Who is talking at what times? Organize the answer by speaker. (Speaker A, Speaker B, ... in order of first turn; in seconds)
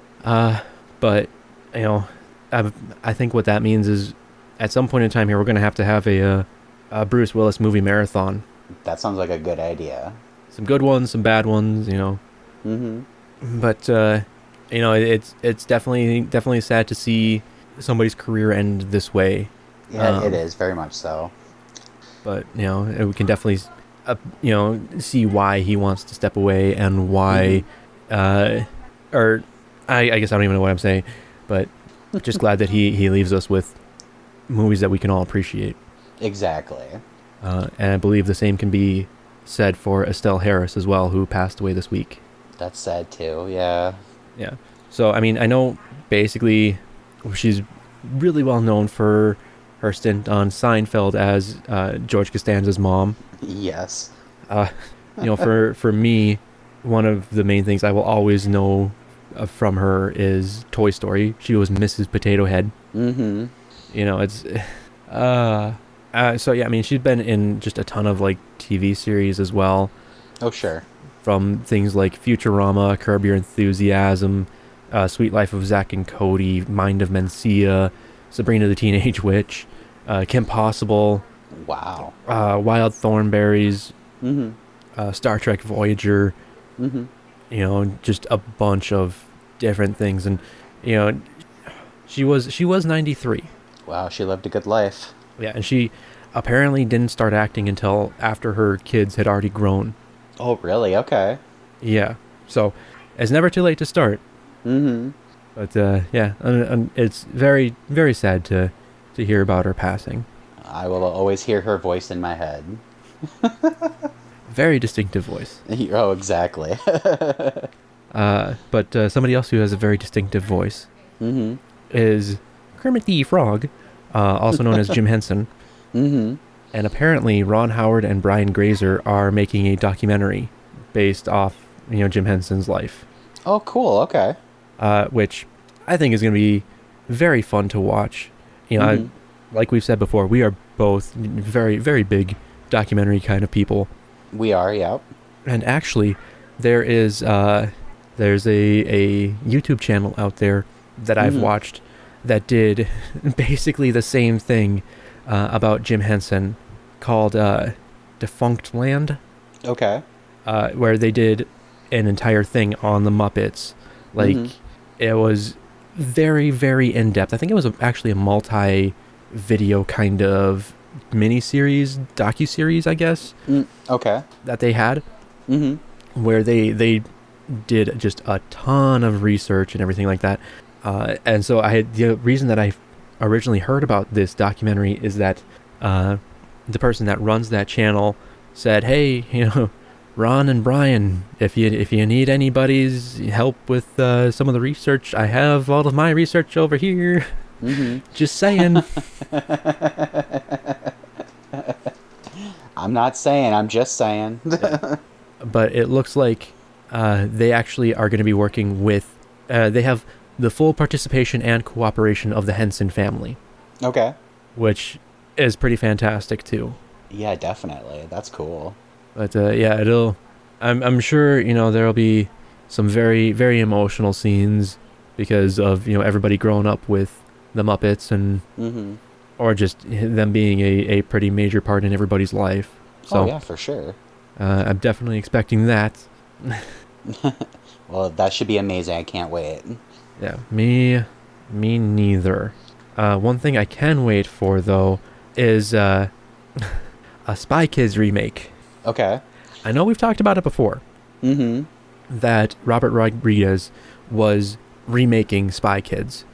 Speaker A: 0.2-8.4, 10.5-12.2, 13.4-20.4, 22.2-33.8, 34.5-35.8, 37.4-42.2, 44.4-53.2, 54.5-62.7, 63.9-69.9, 71.2-81.2, 82.2-83.9, 85.0-86.3, 87.5-91.3, 92.0-93.5, 95.4-100.0, 101.8-104.2, 105.6-110.3, 114.5-115.6, 118.1-120.9, 121.9-125.5, 126.7-133.1, 134.8-143.9, 145.5-159.2, 160.5-173.4, 174.4-175.0, 176.2-197.3, 198.1-199.1, 205.4-213.4, 214.6-216.8, 219.2-228.4, 229.4-233.4, 234.4-236.7, 240.2-248.5, 249.6-250.8, 252.1-256.2
Speaker B: 8.8-10.2, 12.7-13.1, 19.9-21.3, 27.3-27.6, 36.2-37.0, 42.6-44.0, 53.4-54.1, 62.9-63.5, 70.4-70.9, 81.5-82.2, 84.2-84.6, 86.8-87.1, 93.9-95.1, 100.4-101.4, 104.7-105.2, 110.6-114.1, 115.7-117.7, 121.2-121.6, 125.9-126.4, 133.5-134.4, 138.8-139.1, 144.3-145.1, 151.2-151.5, 159.7-160.0, 164.2-164.5, 173.5-174.2, 175.5-175.8, 197.6-198.0, 198.6-200.9, 201.5-205.0, 213.8-214.2, 217.1-218.8, 228.6-229.0, 233.1-234.0, 237.1-239.8, 248.8-249.2, 251.2-251.7